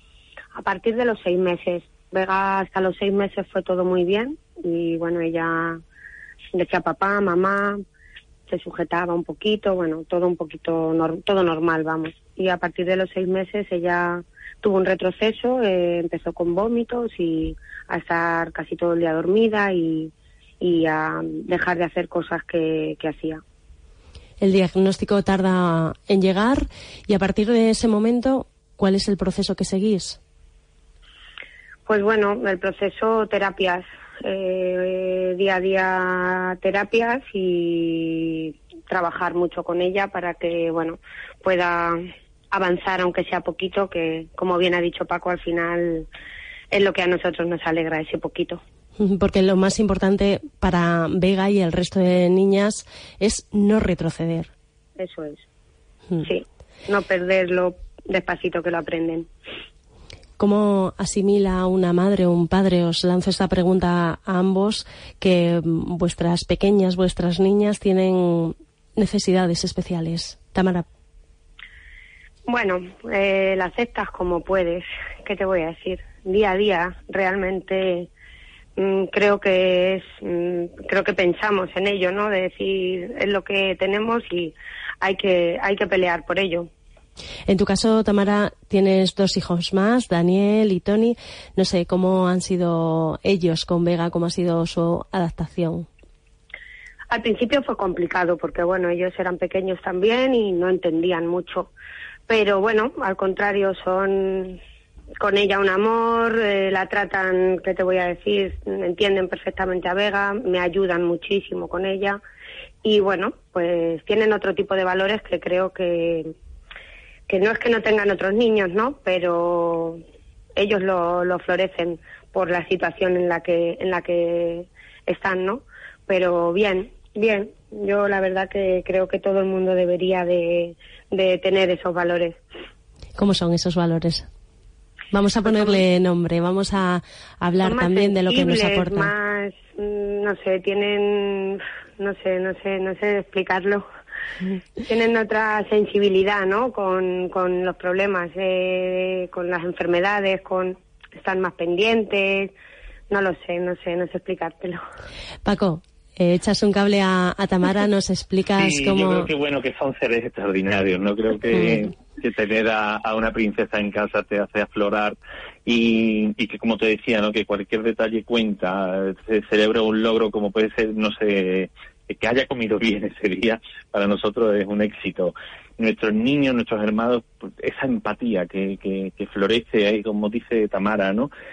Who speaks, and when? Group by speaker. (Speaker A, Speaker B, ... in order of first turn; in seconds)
Speaker A: 0.6-5.8, 6.5-7.8, 8.5-23.4, 31.9-46.1, 46.7-48.6, 55.0-55.4, 56.2-59.3, 72.5-78.1, 78.8-86.7, 97.1-101.7, 102.3-104.6, 105.2-112.2, 112.8-116.3, 117.3-120.0, 120.5-132.4, 135.4-135.8, 137.6-143.8, 144.8-152.5, 153.1-154.8
Speaker B: 24.4-30.2, 49.0-54.5, 60.4-70.8, 87.5-95.9, 133.2-134.3, 135.1-139.1, 155.4-159.3, 161.5-161.8
Speaker C: 158.6-181.3